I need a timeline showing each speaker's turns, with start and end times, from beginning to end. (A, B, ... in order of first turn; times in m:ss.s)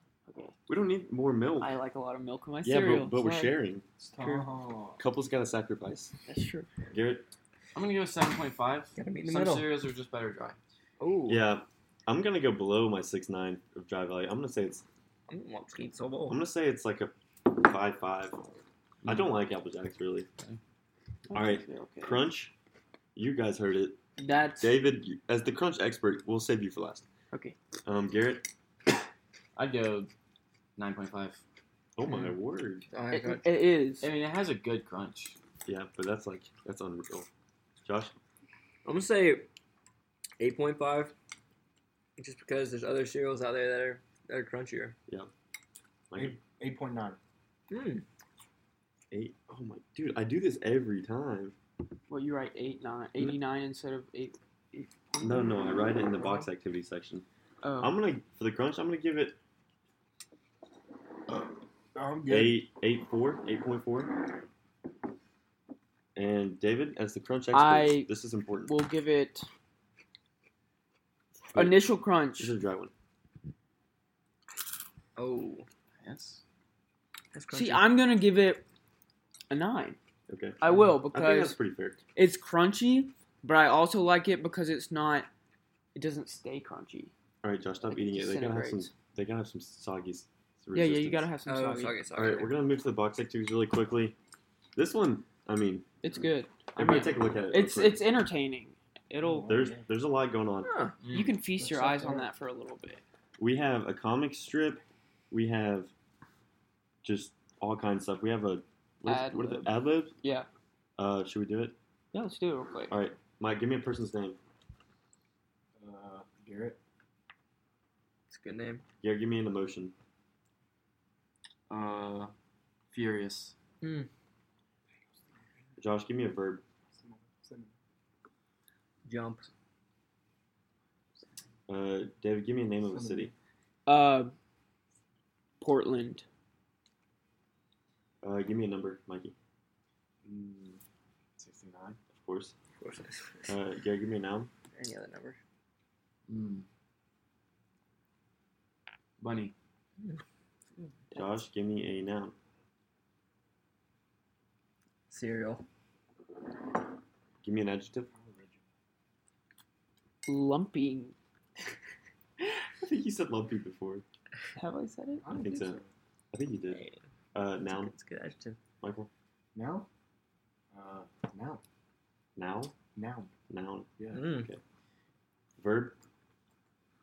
0:00.3-0:00.5 A
0:00.7-0:01.7 B
0:01.6-0:03.6 A
0:02.6-0:03.8 B
0:04.0-0:05.0 C
0:05.0-0:06.1 B
0:06.3-0:06.7 A
0:06.9-0:07.3 B
0:07.7-0:10.6 D
0:09.0-0:09.7 E
0:11.0-0:11.4 E
0:11.3-0:14.8 B
0:15.3-0:16.4 E
0:16.3-0:18.4 B
0:19.0-0:20.3 B
0:21.3-0:22.3 A
0:21.3-0:22.5 B
0:23.1-0:24.0 B
0:24.2-0:24.7 A
0:24.6-0:27.1 B
0:27.8-0:28.5 B
0:29.6-0:30.1 D
0:30.8-0:31.4 D
0:32.0-0:32.8 B
0:32.9-0:33.5 E
0:33.1-0:34.1 A
0:34.0-0:35.4 D
0:35.6-0:37.3 B
0:37.8-0:38.1 B
0:38.8-0:39.5 E
0:40.4-0:41.1 E
0:42.2-0:45.0 E
0:46.1-0:46.4 B
0:46.2-0:47.2 C
0:47.7-0:48.0 E
0:49.1-0:51.6 B
0:52.1-0:56.4 A
0:55.2-0:57.2 B
0:57.6-0:57.9 A
0:57.8-0:59.4 B
1:01.9-1:02.6 C
1:02.3-1:04.2 B
1:06.1-1:08.7 B
1:07.5-1:08.1 A
1:08.6-1:09.5 A
1:11.5-1:12.5 A
1:11.5-1:12.9 B
1:15.2-1:15.6 E
1:16.0-1:16.4 D
1:17.3-1:17.9 E
1:17.5-1:18.6 A
1:19.5-1:20.0 A
1:20.3-1:22.0 B
1:20.6-1:21.6 A
1:22.1-1:25.3 A
1:25.9-1:27.1 A
1:27.4-1:31.3 B
1:27.9-1:28.9 A
1:30.7-1:32.0 A
1:31.4-1:32.5 E
1:32.1-1:34.1 B
1:34.8-1:35.9 B
1:36.0-1:39.5 A
1:36.7-1:38.0 B
1:39.2-1:39.8 C
1:39.5-1:40.7 B
1:40.6-1:41.0 E
1:41.0-1:41.3 D
1:41.1-1:43.0 A
1:41.5-1:42.3 C
1:43.4-1:45.9 B
1:47.0-1:50.1 B
1:49.0-1:50.5 A
1:51.0-1:51.8 B
1:52.1-1:53.0 A
1:52.9-1:54.4 B
1:55.8-1:56.8 C
1:58.3-1:58.8 E
1:59.0-1:59.9 B
2:01.7-2:02.3 D
2:02.9-2:03.6 D
2:03.8-2:04.1 E
2:05.8-2:06.6 B
2:06.9-2:07.7 C
2:09.0-2:09.5 E
2:11.7-2:13.3 B
2:12.8-2:13.3 C
2:13.9-2:14.3 A
2:15.6-2:16.2 A
2:18.2-2:19.3 B
2:20.2-2:20.8 C
2:21.4-2:22.0 C
2:22.1-2:22.6 B
2:22.8-2:23.5 E
2:23.5-2:24.5 B
2:24.7-2:25.4 E
2:26.3-2:26.6 D
2:29.2-2:29.5 D
2:31.1-2:32.3 B
2:35.1-2:35.6 E
2:37.4-2:38.1 B
2:38.1-2:38.6 C
2:40.3-2:41.1 A
2:42.8-2:44.0 B
2:44.6-2:45.2 A
2:45.2-2:45.9 C
2:45.3-2:45.8 B
2:46.3-2:46.8 B
2:46.7-2:47.0 E
2:47.3-2:47.9 B
2:47.6-2:48.6 E
2:48.8-2:49.1 B
2:49.5-2:49.9 C
2:50.7-2:51.6 C
2:52.4-2:52.8 B
2:52.9-2:53.3 C
2:53.5-2:54.6 B
2:54.1-2:54.5 E
2:55.6-2:56.0 B